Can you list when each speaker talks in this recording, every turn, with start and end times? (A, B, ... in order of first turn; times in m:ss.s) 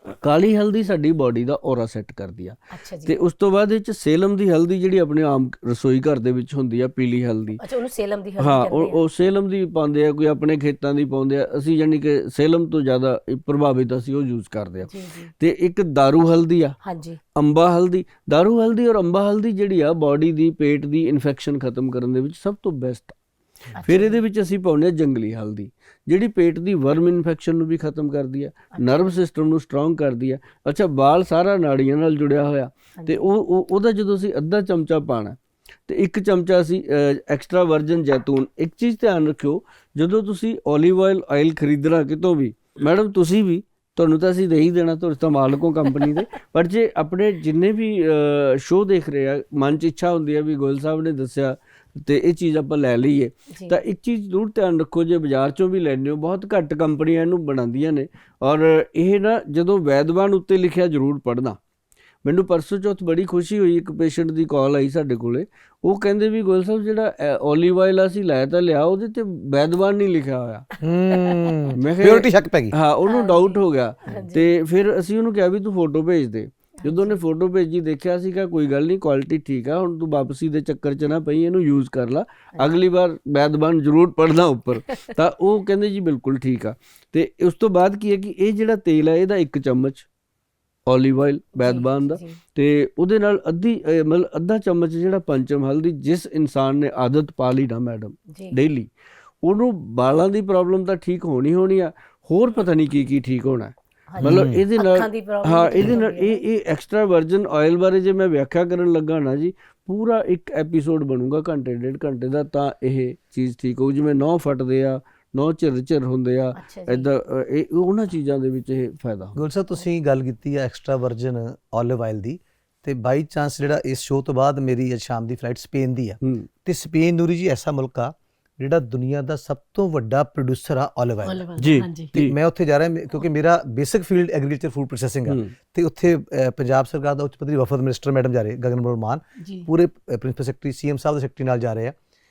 0:00.2-0:07.6 A
0:02.7-0:03.2 B
0:07.6-0:09.0 B
0:08.4-0:16.8 A
0:14.8-0:15.3 B
0:16.8-0:17.2 B
0:17.3-0:23.2 A
0:23.7-0:24.2 B
0:23.8-1:01.6 A
0:28.7-0:29.2 B
0:33.0-0:33.3 B
0:53.5-0:53.8 B
1:02.2-1:10.6 A
1:10.8-1:12.7 C
1:11.1-1:11.6 B
1:11.7-1:30.0 A
1:13.0-1:14.5 B
1:16.8-1:17.2 B
1:30.9-1:38.9 A
1:31.6-1:32.4 B
1:38.3-1:38.5 B
1:39.4-1:59.4 A
1:44.1-1:46.4 B
1:44.2-1:44.6 C
1:56.6-1:57.1 B
1:59.4-2:11.4 C
2:06.2-2:06.5 A
2:11.2-2:12.1 B
2:11.6-2:12.4 A
2:12.1-2:22.0 C
2:15.2-2:15.5 A
2:19.4-2:19.7 B